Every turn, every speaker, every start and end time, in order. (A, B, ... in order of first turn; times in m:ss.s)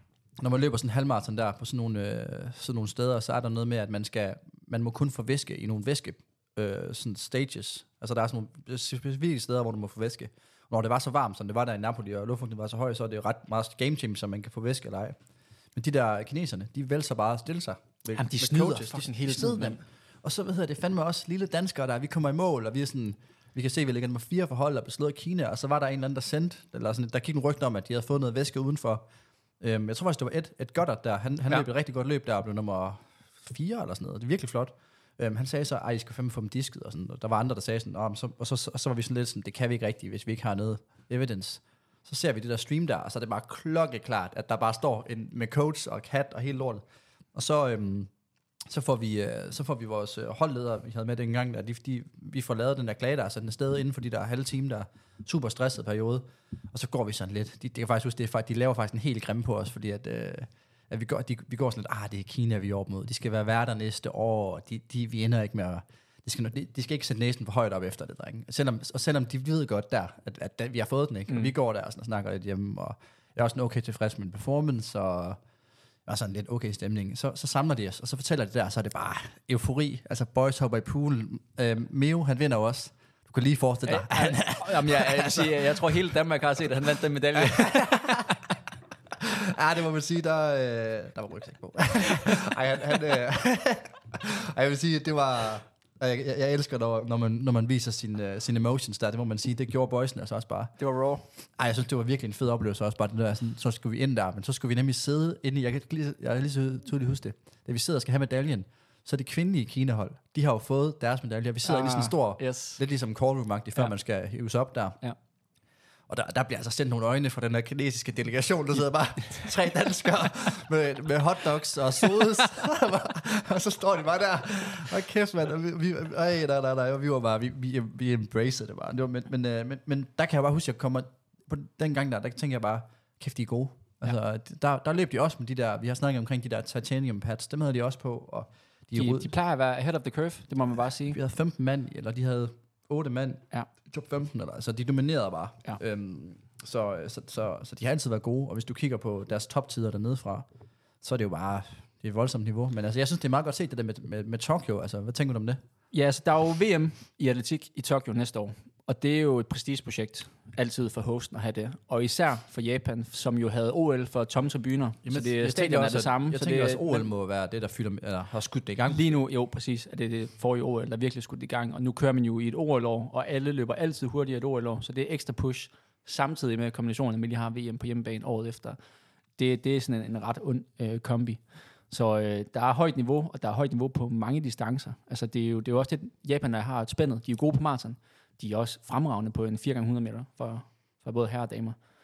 0:00.4-0:15.2 A
0:15.7-0:29.0 A
0:18.1-0:19.8 B
0:29.6-0:46.8 A
0:47.3-0:48.1 A
0:48.7-1:15.4 A
1:16.0-1:26.0 A
1:23.8-1:28.4 B
1:27.4-1:28.3 A
1:29.2-1:40.7 A
1:40.8-1:41.2 B
1:41.6-1:55.0 A
1:51.6-1:52.8 B
1:56.1-2:19.3 A
2:18.9-2:21.2 B
2:21.1-2:30.4 A
2:31.0-2:35.6 A
2:35.9-2:47.1 B
2:45.0-2:49.0 A
2:48.9-2:58.8 B
2:59.4-3:11.8 B